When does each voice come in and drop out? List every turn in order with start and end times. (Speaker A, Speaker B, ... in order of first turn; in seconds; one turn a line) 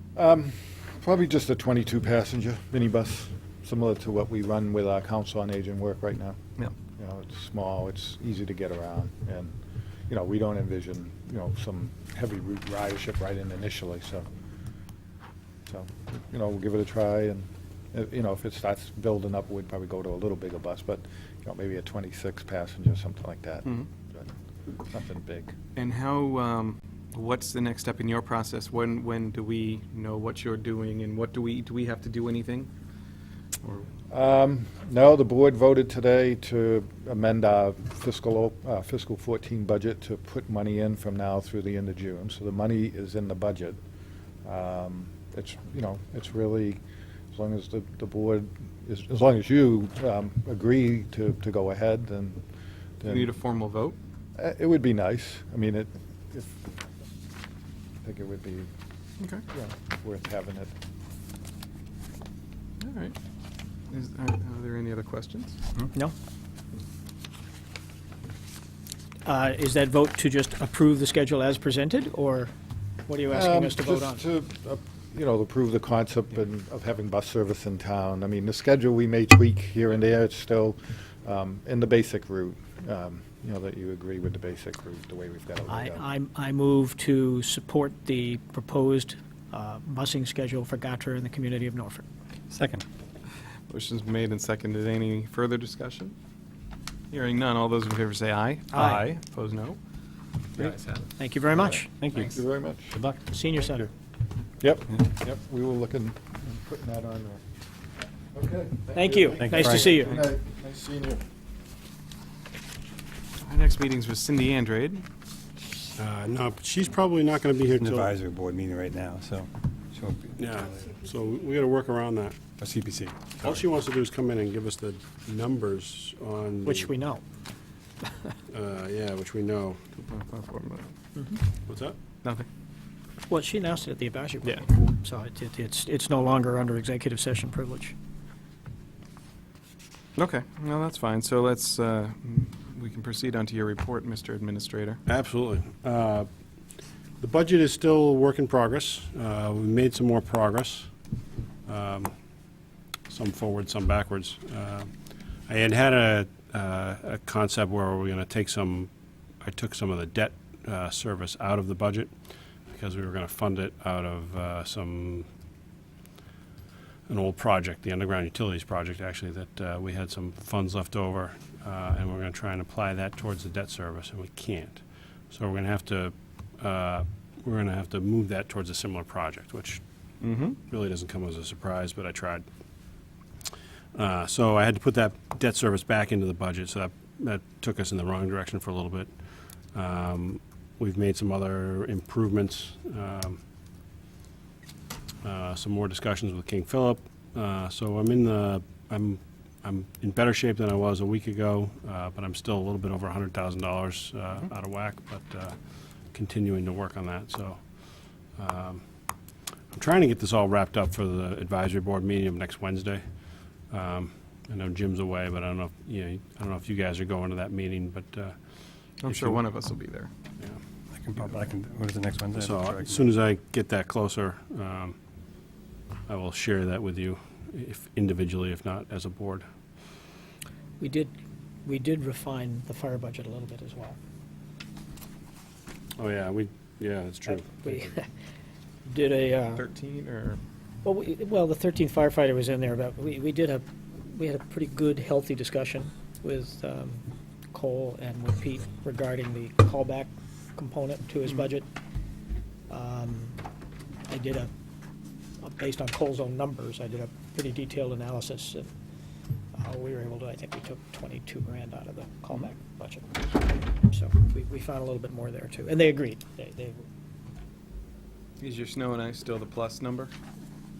Speaker A: 0.2-6.4
Speaker A: 7.0-9.6
Speaker A: 10.1-14.3
Speaker A: 15.7-24.3
Speaker A: 24.9-25.6
Speaker B: 25.8-32.7
Speaker A: 34.1-43.8
Speaker A: 44.4-46.8
Speaker A: 47.3-52.4
Speaker A: 53.0-53.3
Speaker B: 53.0-54.0
Speaker A: 54.4-56.7
Speaker A: 58.0-58.7
Speaker A: 59.5-60.8
Speaker B: 62.8-63.1
Speaker B: 63.9-65.6
Speaker C: 69.3-72.5
Speaker C: 73.1-74.2
Speaker A: 73.3-86.0
Speaker C: 85.7-92.0
Speaker D: 92.5-92.8
Speaker B: 93.7-96.2
Speaker B: 97.1-99.8
Speaker C: 98.7-99.0
Speaker B: 100.5-101.1
Speaker C: 101.2-101.9
Speaker A: 101.5-103.0
Speaker D: 102.0-102.4
Speaker D: 102.9-103.2
Speaker C: 103.3-103.9
Speaker A: 104.6-107.4
Speaker A: 108.3-111.2
Speaker C: 108.9-110.2
Speaker D: 109.4-109.9
Speaker B: 109.8-110.2
Speaker B: 113.4-115.0
Speaker E: 116.0-118.1
Speaker D: 117.8-120.9
Speaker E: 120.4-122.4
Speaker D: 122.6-123.6
Speaker E: 123.4-126.9
Speaker C: 126.7-127.2
Speaker E: 128.5-129.8
Speaker B: 130.0-131.0
Speaker C: 131.2-131.4
Speaker E: 131.7-132.0
Speaker C: 133.3-137.9
Speaker B: 140.2-145.0
Speaker E: 145.1-146.3
Speaker E: 147.2-150.9
Speaker E: 151.7-152.1
Speaker E: 153.1-154.9
Speaker E: 155.5-158.9
Speaker E: 159.4-162.1
Speaker E: 162.7-165.3
Speaker E: 167.1-179.8
Speaker B: 180.2-180.6
Speaker E: 180.7-182.5
Speaker E: 183.9-189.1
Speaker E: 189.7-193.4
Speaker E: 195.2-205.6
Speaker E: 206.1-207.7
Speaker E: 208.3-208.8
Speaker E: 209.7-213.0
Speaker E: 213.7-218.3
Speaker B: 219.0-220.1
Speaker E: 219.0-219.4
Speaker D: 220.9-223.1
Speaker E: 222.4-225.0
Speaker E: 226.1-229.5
Speaker C: 230.8-231.1
Speaker C: 231.7-234.0
Speaker E: 236.0-237.9
Speaker C: 237.3-238.1
Speaker C: 238.9-239.7
Speaker B: 239.5-240.4
Speaker C: 240.8-251.7
Speaker C: 252.7-253.4
Speaker C: 254.1-254.5
Speaker C: 255.4-258.7
Speaker C: 259.6-266.8
Speaker B: 268.4-270.1